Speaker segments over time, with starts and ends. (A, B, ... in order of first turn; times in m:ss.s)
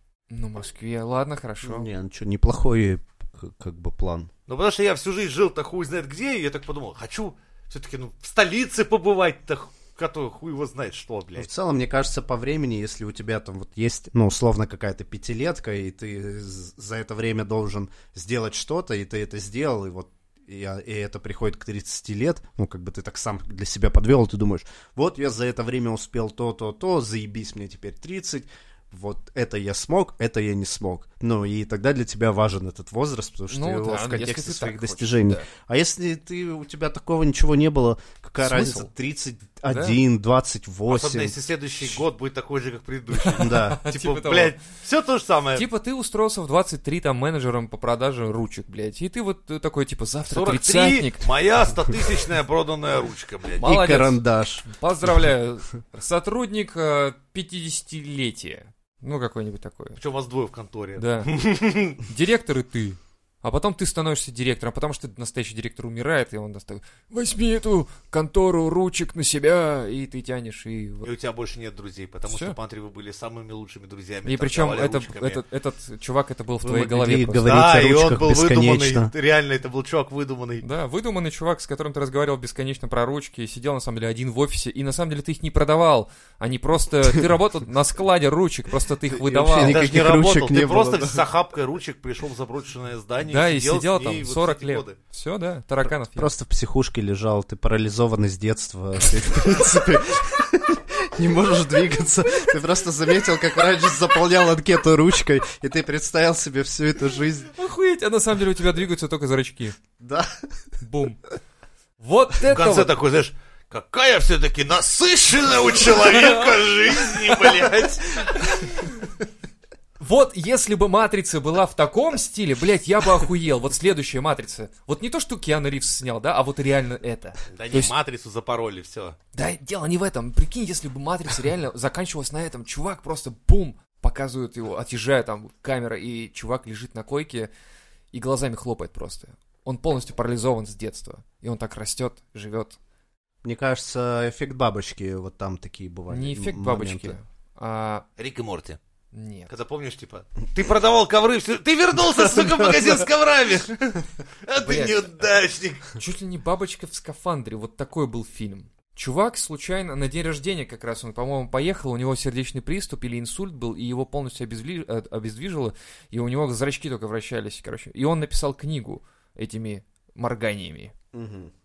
0:00.3-0:01.9 A
0:01.6-0:04.3 B
0:04.5-0:11.5 C
0:11.4-0:42.0 B
0:33.5-0:35.5 A
0:38.4-0:38.9 A
0:39.7-0:40.0 A
0:40.9-0:45.6 C
0:43.1-0:44.5 A
0:43.4-0:43.8 B
0:45.6-0:51.3 A
0:50.3-0:53.7 C
0:53.6-1:00.0 A
0:53.6-0:54.7 B
1:00.0-1:02.0 C
1:01.0-1:01.3 A
1:02.0-1:11.1 A
1:11.0-1:15.4 C
1:12.3-1:12.6 A
1:14.2-1:17.6 A
1:16.6-1:19.1 B
1:17.4-1:20.6 C
1:20.6-1:29.8 A
1:29.1-1:31.2 B
1:29.6-1:35.0 C
1:33.3-1:36.3 A
1:35.8-1:47.5 B
1:47.6-1:49.8 A
1:50.0-1:50.3 B
1:50.8-1:51.2 A
1:52.0-1:52.9 A
1:52.4-1:58.5 C
1:55.9-1:59.1 A
2:00.0-2:07.9 A
2:07.5-2:09.2 C
2:09.3-2:17.5 A
2:18.1-2:22.8 A
2:23.4-2:27.2 B
2:26.1-2:28.0 A
2:28.2-2:28.8 C
2:29.1-2:29.5 A
2:29.5-2:36.0 C
2:32.4-2:32.9 B
2:34.6-2:35.3 A
2:35.9-2:50.9 A
2:51.1-2:51.5 B